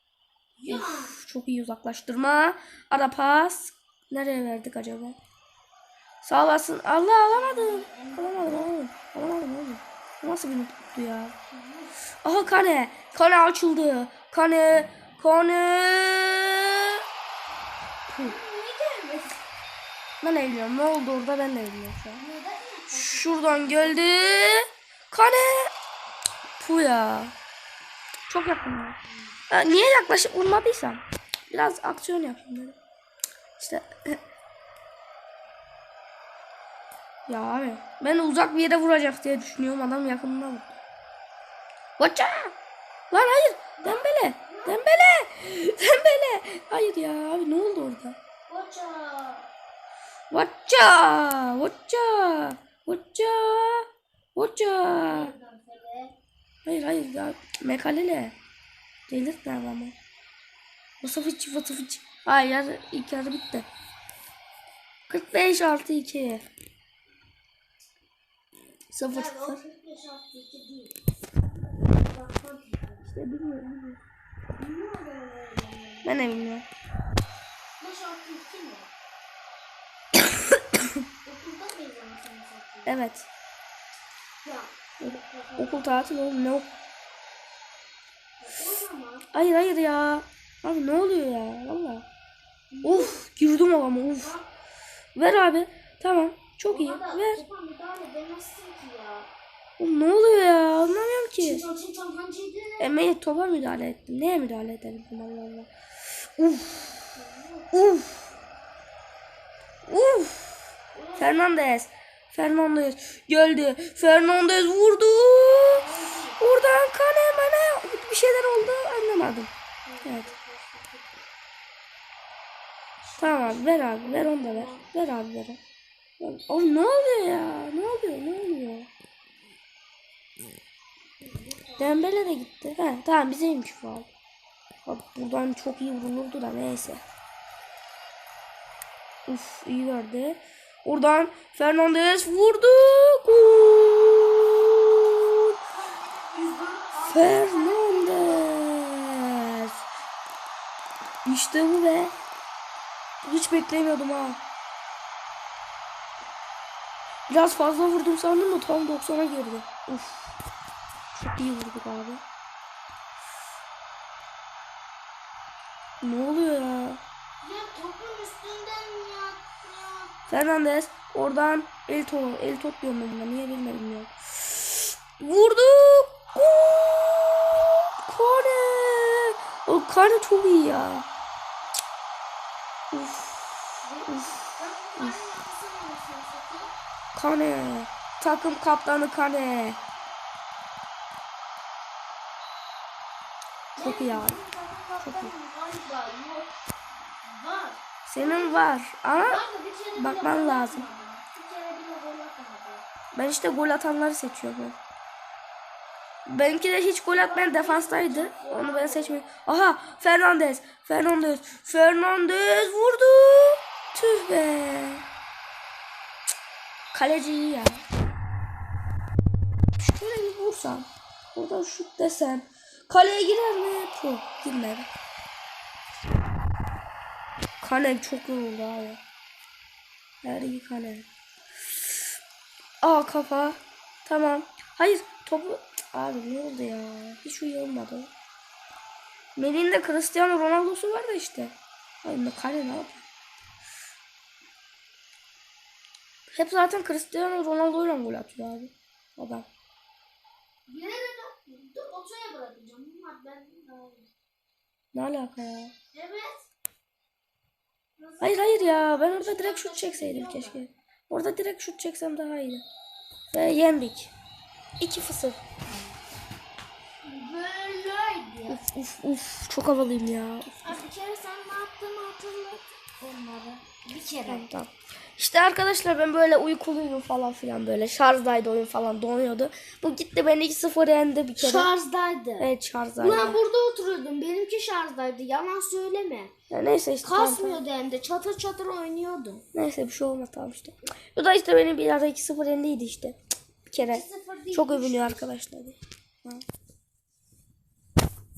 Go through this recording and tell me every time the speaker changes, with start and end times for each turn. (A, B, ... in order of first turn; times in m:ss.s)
0:00.6-0:01.1 A
0:00.7-0:05.2 B
0:06.2-0:11.3 B
0:07.3-0:08.7 A
0:11.5-0:11.9 A
0:12.2-0:17.0 B
0:18.1-0:18.4 B
0:18.2-0:19.4 A
0:20.2-0:22.2 B
0:22.1-0:24.1 A
0:22.9-0:25.7 B
0:26.6-0:27.3 B
0:28.3-0:29.0 B
0:29.5-0:32.8 B
0:33.6-0:34.2 B
0:37.3-0:40.8 B
0:42.0-0:42.5 B
0:43.1-0:48.2 B
0:43.8-0:44.8 A
0:48.5-0:49.5 A
0:50.3-0:55.3 B
0:54.9-0:56.1 A
0:56.6-0:58.3 B
0:59.1-1:00.0 B
1:01.0-1:03.7 B
1:05.1-1:06.4 B
1:08.9-1:09.6 B
1:09.1-1:13.1 A
1:13.0-1:14.0 B
1:14.5-1:16.4 A
1:16.0-1:16.7 B
1:17.8-1:18.9 A
1:21.2-1:23.0 A
1:22.8-1:23.3 B
1:24.4-1:26.1 A
1:25.0-1:26.7 B
1:28.4-1:29.3 A
1:29.3-1:32.0 B
1:32.7-1:33.2 A
1:32.8-1:34.4 B
1:34.2-1:34.5 A
1:35.2-1:37.4 B
1:36.7-1:39.3 A
1:39.8-1:41.6 B
1:41.4-1:43.0 A
1:42.8-1:47.0 B
1:47.0-1:47.7 A
1:47.7-1:48.3 B
1:49.8-1:55.8 B
1:50.9-1:51.4 A
1:55.7-1:56.4 A
1:56.4-1:59.5 B
1:59.8-2:01.1 A
2:00.0-2:00.3 B
2:03.0-2:04.9 A
2:03.2-2:05.6 B
2:06.2-2:08.9 B
2:11.2-2:12.0 A
2:11.8-2:14.1 B
2:14.8-2:17.0 B
2:19.3-2:25.5 B
2:25.7-2:28.6 A
2:27.0-2:29.8 B
2:31.2-2:32.1 B
2:33.2-2:34.4 B
2:37.3-2:40.3 B
2:41.1-2:42.2 B
2:46.0-2:47.0 B
2:47.4-2:50.1 A
2:50.3-3:01.0 B
3:02.9-3:05.2 B
3:03.8-3:06.7 A
3:07.1-3:09.8 B
3:13.8-3:16.5 A
3:13.8-3:14.4 B
3:15.0-3:15.3 B
3:17.2-3:22.8 A
3:18.0-3:19.4 B
3:20.0-3:20.8 B
3:23.1-3:24.8 B
3:26.2-3:35.0 B
3:27.1-3:29.2 A
3:36.9-3:37.8 B
3:39.8-3:44.9 B
3:47.6-3:49.0 B
3:50.2-3:51.1 B
3:52.8-3:58.1 B
3:59.4-4:03.0 B
4:06.3-4:09.5 B
4:10.7-4:14.1 A
4:14.9-4:15.7 B
4:15.9-4:16.5 A
4:18.0-4:20.6 A
4:18.2-4:22.6 B
4:23.3-4:24.1 B
4:24.8-4:25.4 B
4:27.0-4:28.6 A
4:28.5-4:30.8 B
4:30.6-4:34.4 A
4:34.2-4:41.7 B
4:41.4-4:42.5 A
4:42.4-4:43.4 B
4:43.0-4:46.3 A
4:46.5-4:47.6 B
4:47.0-4:49.4 A
4:49.5-4:53.2 B
4:53.7-4:56.4 B
4:53.7-4:55.3 A